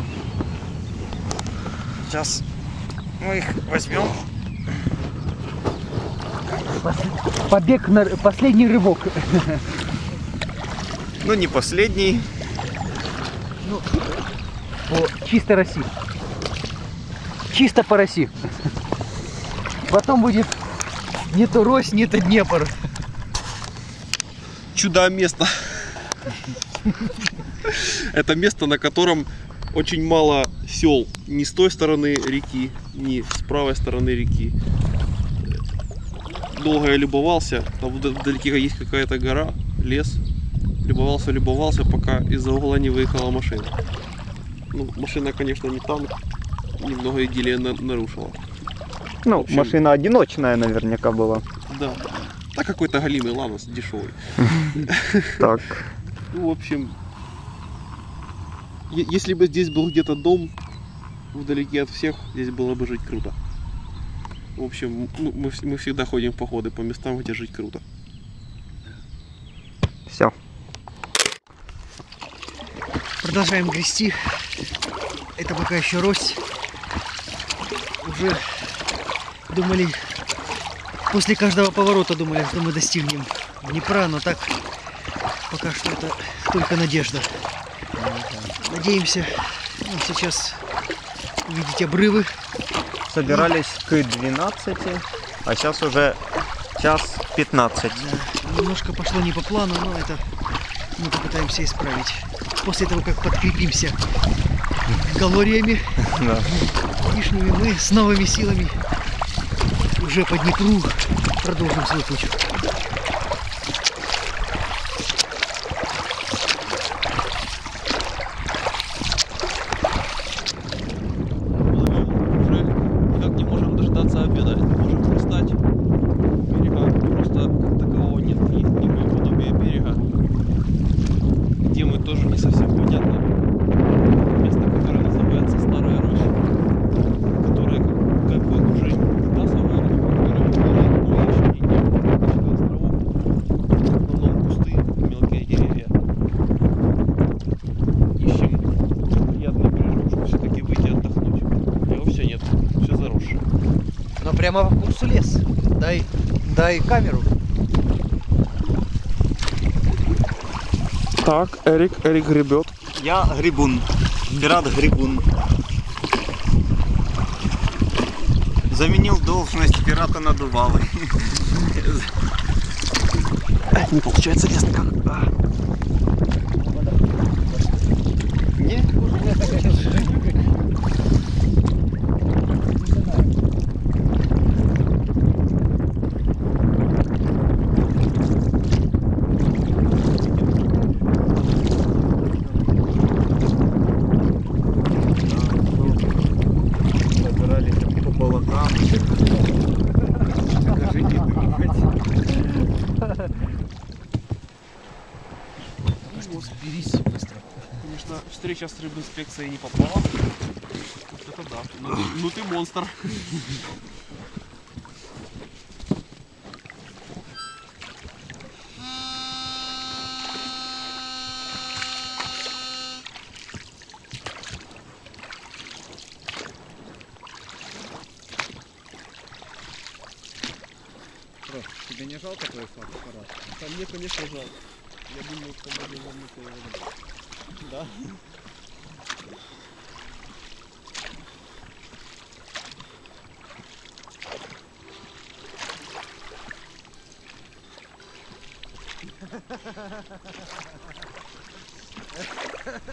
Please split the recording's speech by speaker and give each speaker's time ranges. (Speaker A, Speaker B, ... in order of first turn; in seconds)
Speaker A: 2.0-2.4, 3.2-4.2, 11.2-12.3, 49.2-51.4, 55.4-55.9, 70.1-70.3, 88.0-88.5, 93.0-96.2, 96.8-98.0, 106.1-106.5, 162.9-165.3, 168.7-172.1, 178.6-179.0, 195.2-196.2, 197.1-199.5, 200.6-201.9, 231.4-233.4, 237.6-238.1
Speaker B: 6.8-9.7, 13.6-13.9, 14.9-15.9, 17.5-18.3, 19.9-20.6, 21.2-22.8, 73.2-74.5, 75.3-76.4, 78.0-78.8, 79.5-80.0, 81.1-84.6, 85.5-87.3, 88.6-90.6, 91.4-92.3, 93.2-93.5, 97.9-100.2, 101.0-104.0, 105.0-106.0, 107.0-108.8, 110.0-112.5, 154.2-157.3, 176.6-177.8, 179.0-180.4, 182.7-183.3, 206.0-207.7
Speaker C: 24.7-26.0, 27.6-34.5, 36.5-40.2, 40.8-43.7, 44.7-46.1, 46.8-48.4, 49.3-49.8, 51.7-55.5, 56.3-57.0, 58.9-60.5, 61.3-63.3, 64.6-67.8, 121.7-125.6, 126.4-130.0, 131.6-133.3, 134.3-136.3, 137.4-143.0, 144.0-145.9, 148.2-153.4, 161.2-162.7, 173.7-175.3, 206.0-206.6, 207.8-210.1, 211.1-213.6, 233.4-236.9